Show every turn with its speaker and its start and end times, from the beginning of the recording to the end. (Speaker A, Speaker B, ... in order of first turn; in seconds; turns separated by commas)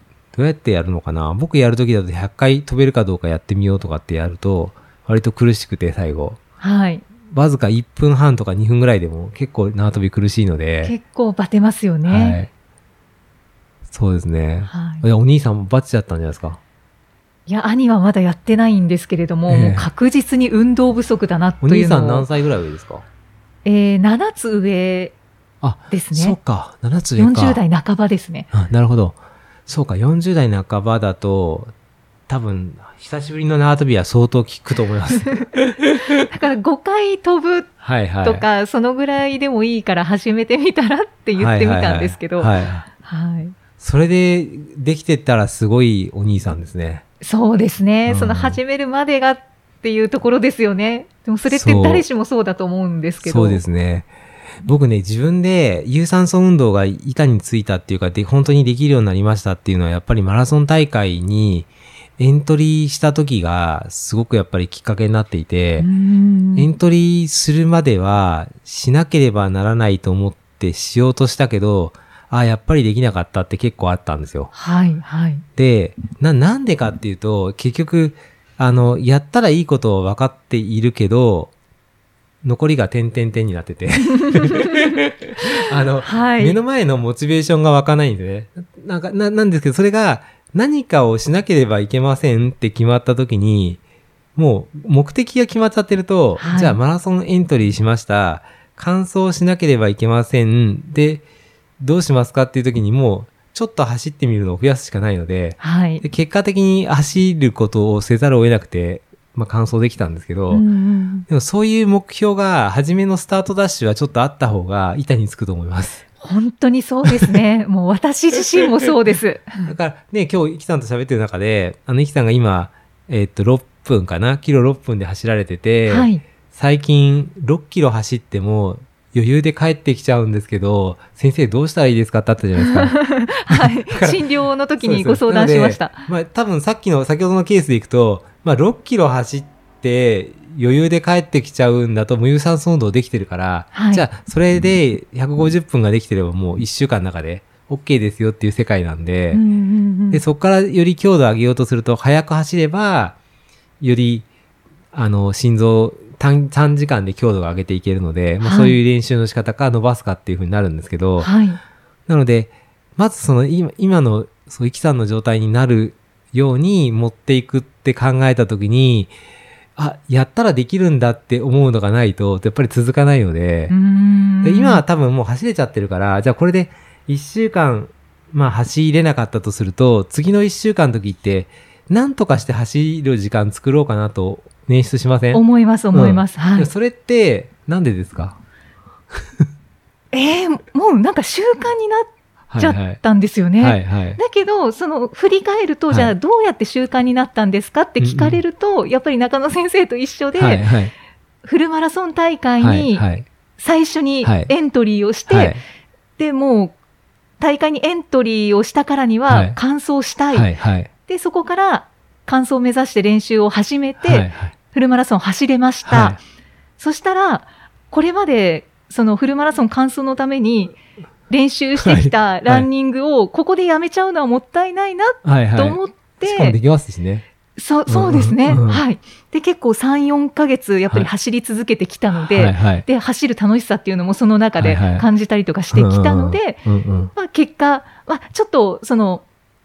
Speaker A: 0.3-6.4, Speaker B: 6.6-7.0, Speaker A: 7.3-10.9, Speaker B: 10.8-12.4, Speaker A: 12.0-12.5, Speaker A: 13.9-16.6, Speaker B: 14.7-15.0, Speaker B: 17.4-22.3, Speaker A: 19.5-19.9, Speaker A: 21.6-23.0, Speaker B: 23.6-25.1, Speaker A: 25.6-27.6, Speaker B: 25.9-26.4, Speaker B: 27.2-28.5, Speaker A: 28.5-31.7, Speaker A: 32.3-35.6, Speaker B: 36.2-37.7, Speaker A: 37.8-38.5, Speaker B: 38.2-43.5, Speaker A: 41.4-42.9, Speaker A: 43.8-47.0, Speaker B: 47.2-53.6, Speaker A: 48.1-48.6, Speaker A: 51.5-52.1, Speaker A: 53.2-54.1, Speaker A: 54.6-65.9, Speaker B: 65.8-66.7, Speaker A: 66.5-74.5, Speaker B: 74.5-75.4, Speaker A: 75.5-81.5, Speaker A: 82.4-93.8, Speaker B: 84.2-86.6, Speaker A: 94.3-101.2, Speaker B: 96.4-96.8, Speaker A: 101.8-110.7, Speaker B: 105.6-106.0, Speaker B: 110.5-111.2, Speaker A: 111.3-116.0, Speaker B: 116.2-119.7, Speaker A: 117.0-117.4, Speaker A: 119.6-133.0, Speaker B: 125.9-126.2, Speaker B: 132.6-136.1, Speaker A: 133.5-134.3, Speaker A: 134.8-149.4, Speaker B: 143.7-144.0, Speaker B: 149.3-150.2, Speaker A: 150.1-153.2, Speaker A: 153.8-154.3, Speaker A: 154.9-161.3, Speaker B: 158.4-158.8, Speaker B: 161.2-161.6, Speaker A: 162.1-169.1, Speaker A: 169.8-173.8, Speaker B: 173.7-174.8, Speaker A: 174.4-188.4, Speaker B: 185.3-186.7, Speaker B: 190.1-200.7, Speaker A: 192.5-193.0, Speaker A: 193.6-194.2, Speaker A: 195.9-196.2, Speaker A: 198.0-198.4, Speaker A: 200.3-200.9, Speaker B: 201.4-205.6, Speaker A: 202.6-203.2, Speaker A: 204.2-204.5, Speaker A: 205.3-205.6, Speaker B: 206.2-206.8, Speaker B: 207.4-210.5, Speaker A: 209.3-209.6, Speaker A: 210.3-210.9, Speaker B: 211.1-216.2, Speaker A: 214.0-214.5, Speaker A: 215.8-216.2, Speaker B: 216.8-220.8, Speaker B: 221.3-226.6, Speaker A: 221.8-222.7, Speaker A: 225.2-227.2, Speaker B: 227.6-236.6, Speaker A: 227.9-228.8, Speaker A: 232.2-232.8, Speaker A: 234.6-235.1, Speaker A: 235.7-237.1, Speaker B: 237.1-239.2